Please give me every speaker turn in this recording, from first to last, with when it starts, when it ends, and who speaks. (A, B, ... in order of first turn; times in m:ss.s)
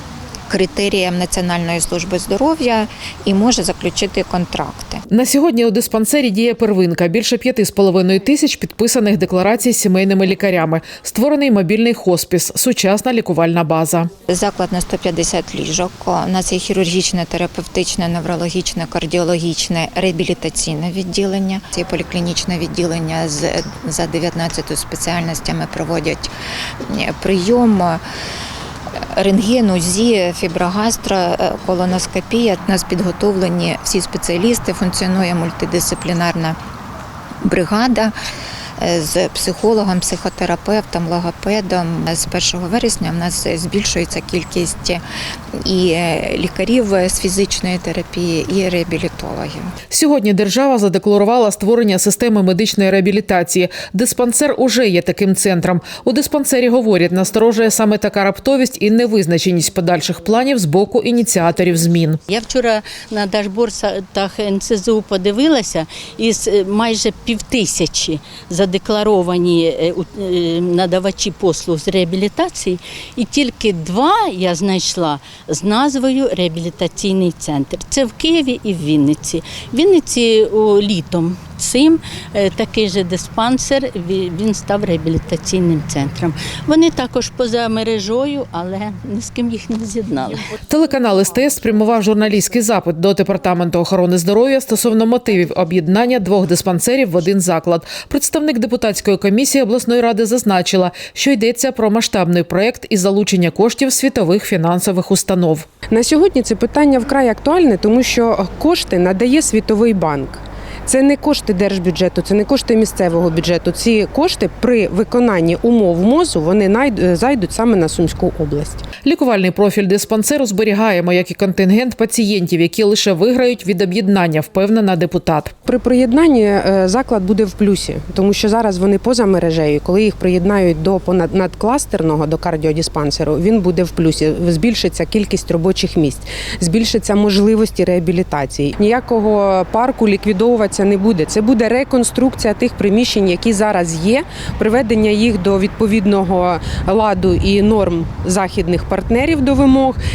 0:00.5-0:05.0 A
0:05.1-0:14.1 B
0:14.3-0:26.3 A
0:26.9-0:28.0 A
0:29.1-0:36.6 A
0:37.4-0:38.1 A
0:38.8-0:45.0 A
0:45.6-0:49.7 A
0:49.9-1:02.2 B
1:02.3-1:30.4 C
1:30.7-1:45.6 B
1:46.0-1:50.4 D
1:50.9-1:58.8 D
1:59.0-2:05.5 B
2:06.0-2:29.9 D